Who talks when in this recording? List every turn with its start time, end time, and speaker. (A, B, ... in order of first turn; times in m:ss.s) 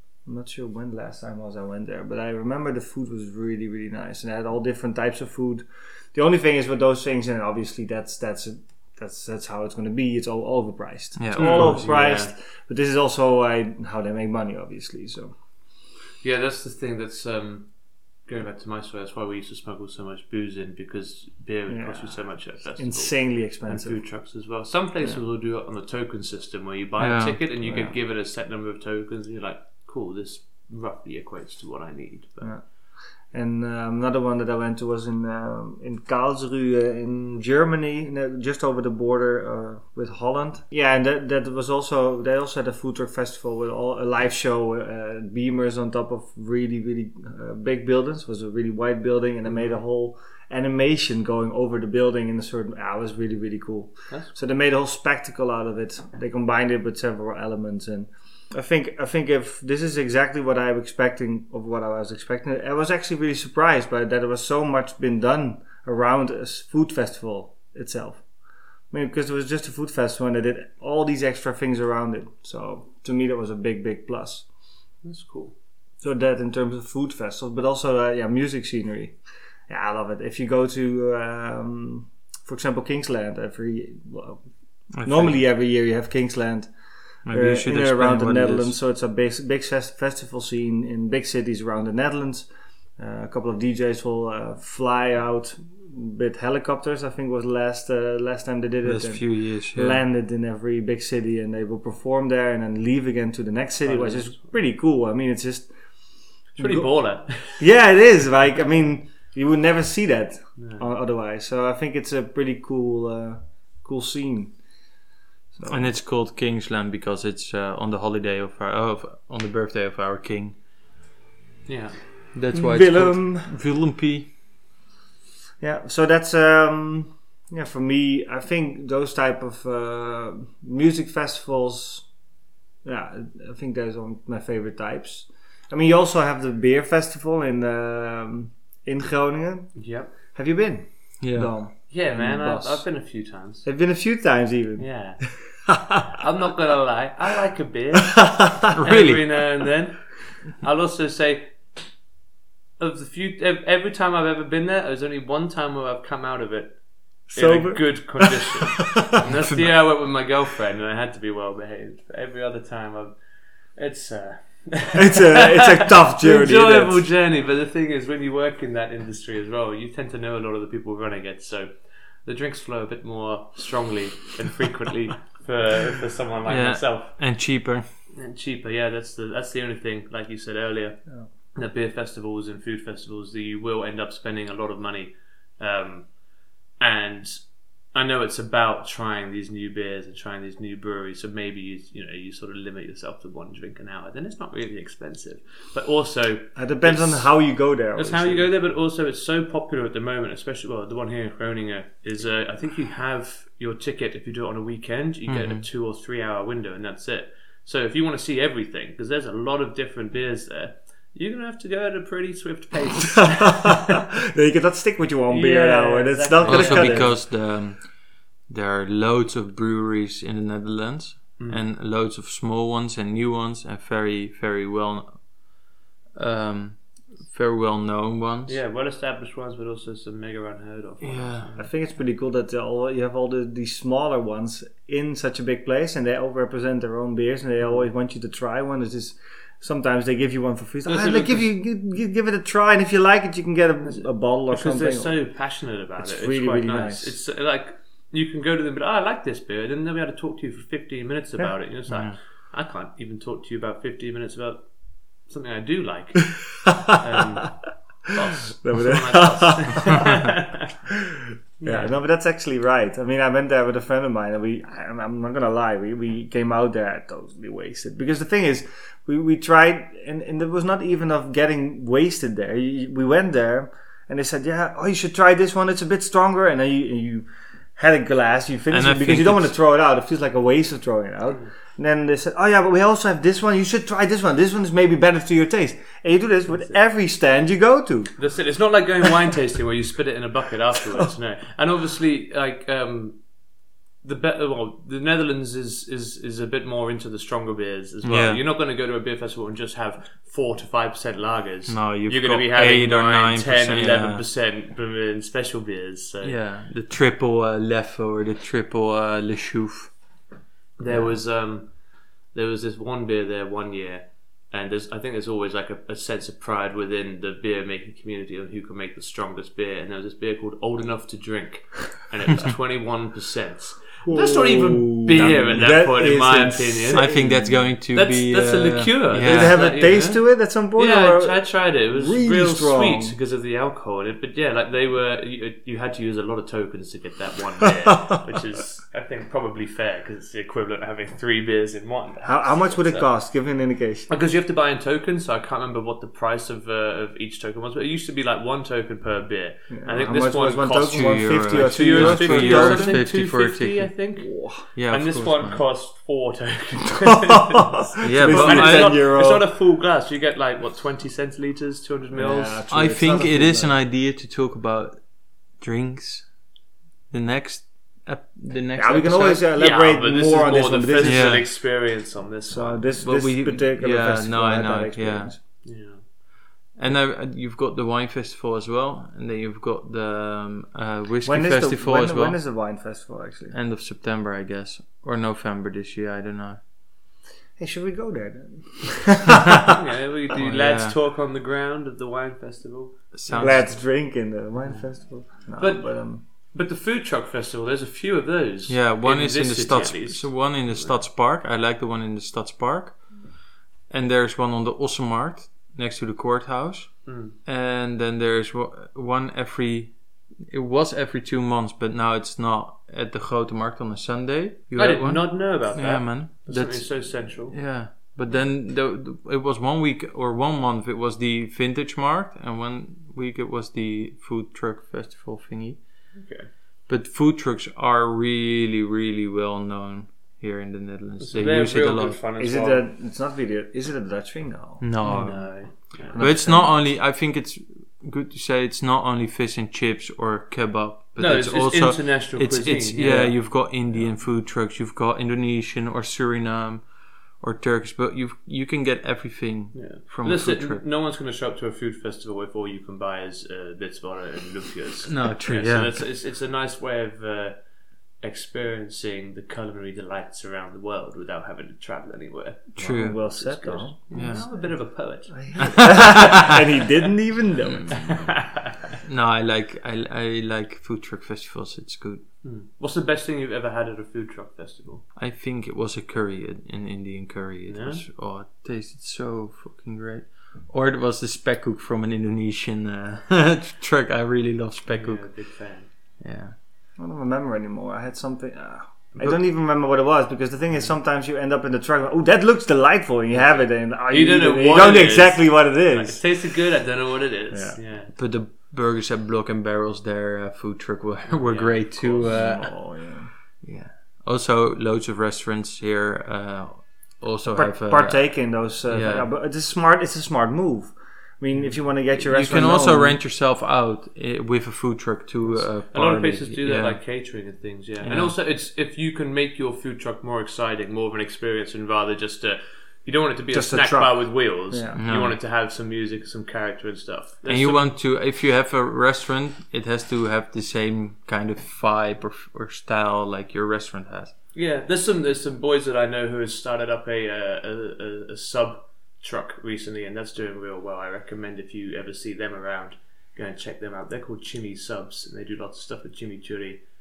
0:00.2-0:15.3 A
0:11.2-0:11.8 B
0:11.3-0:12.3 C
0:16.2-0:17.7 C
0:18.2-0:32.5 C
0:21.7-0:24.0 A
0:27.0-0:27.4 B
0:27.6-0:28.0 A
0:32.4-0:32.6 A
0:33.3-1:08.2 A
1:08.9-1:14.4 A
1:15.0-1:15.5 C
1:16.0-1:19.2 A
1:19.7-1:24.4 A
1:25.0-1:25.4 B
1:25.0-1:26.7 A
1:27.2-1:28.7 B
1:27.3-1:45.7 A
1:38.8-1:40.0 B
1:43.8-1:44.5 C
1:46.6-1:46.9 A
1:46.6-1:47.6 C
1:47.6-1:54.6 A
1:50.6-1:50.8 C
1:55.5-1:55.9 A
1:55.7-2:00.6 B
2:01.6-2:02.0 C
2:02.3-2:04.3 B
2:02.5-2:03.5 A
2:05.6-2:12.1 A
2:12.8-2:22.9 A
2:19.8-2:20.1 C
2:21.2-2:21.5 B
2:21.9-2:23.7 C
2:23.6-2:26.0 A
2:24.8-2:25.2 C
2:26.1-2:31.6 C
2:28.2-2:28.7 A
2:28.7-2:29.2 B
2:32.8-2:36.8 C
2:37.3-2:43.2 C
2:37.3-2:39.1 A
2:43.8-2:51.7 C
2:44.9-2:47.0 A
2:52.2-2:57.2 C
2:56.5-2:57.8 B
2:58.1-3:01.0 C
3:01.5-3:06.1 C
3:06.8-3:17.3 C
3:16.6-3:18.5 A
3:17.9-3:33.8 C
3:25.3-3:25.6 B
3:33.4-3:37.2 A
3:35.3-3:37.2 C
3:36.4-3:45.4 B
3:41.4-3:41.6 C
3:46.1-3:48.6 B
3:48.4-3:51.7 C
3:51.0-3:51.5 B
3:51.6-4:05.2 A
4:00.8-4:01.5 C
4:03.8-4:20.8 C
4:06.0-4:07.2 A
4:11.9-4:12.2 B
4:18.6-4:20.3 A
4:21.1-4:48.1 A
4:21.6-4:21.9 C
4:38.7-4:39.5 B
4:48.2-4:53.2 C
4:54.0-5:06.4 C
4:58.0-4:58.4 B
5:01.7-5:04.2 B
5:06.2-5:09.9 B
5:10.8-5:11.8 C
5:12.3-5:27.1 C
5:24.0-5:27.8 A
5:26.9-5:29.6 B
5:27.9-5:43.1 C
5:29.2-5:33.2 A
5:42.2-5:44.1 A
5:44.1-6:02.6 C
5:49.7-5:53.0 A
5:50.8-5:53.9 B
5:54.2-5:54.6 A
5:54.8-5:55.6 B
5:58.0-5:59.4 A
5:58.0-5:59.0 B
6:02.1-6:03.8 A
6:02.7-6:06.3 B
6:07.1-6:09.4 B
6:08.8-6:11.4 A
6:09.5-6:12.9 C
6:11.0-6:11.5 B
6:12.5-6:15.4 A
6:13.0-6:15.4 B
6:15.6-6:16.0 C
6:16.8-6:22.4 B
6:21.2-6:23.6 A
6:23.5-6:26.6 B
6:27.6-6:29.7 A
6:29.7-6:33.6 C
6:30.3-6:30.9 B
6:33.1-6:33.8 B
6:33.4-6:36.2 A
6:35.6-6:41.0 C
6:38.7-6:43.2 B
6:43.9-6:50.0 B
6:47.0-6:47.4 C
6:50.5-7:05.8 B
6:54.7-6:57.6 C
7:06.1-7:06.5 C
7:06.9-7:12.2 B
7:11.2-7:12.8 C
7:12.4-7:14.8 A
7:14.8-7:26.8 B
7:15.0-7:16.2 C
7:16.0-7:16.8 A
7:21.2-7:24.1 C
7:23.0-7:23.3 A
7:27.4-7:30.8 B
7:29.7-7:37.6 C
7:35.1-7:36.0 B
7:38.2-7:46.8 C
7:42.8-7:43.2 B
7:42.8-7:48.3 A
7:44.1-7:44.4 B
7:45.6-7:46.6 B
7:47.9-7:48.9 C
7:49.0-7:52.2 B
7:52.4-7:55.0 C
7:55.2-8:05.4 B
7:57.7-7:58.0 C
8:04.9-8:05.9 C
8:06.2-8:06.5 B
8:07.0-8:16.2 A
8:13.3-8:18.1 C
8:17.5-8:17.8 A
8:18.1-8:29.2 B
8:21.3-8:21.8 C
8:22.0-8:23.3 A
8:27.5-8:33.2 A
8:32.0-8:37.0 B
8:35.9-8:47.9 C
8:38.0-8:38.4 B
8:43.5-8:45.0 A
8:45.0-8:45.4 B
8:47.4-8:54.3 B
8:54.5-9:06.8 C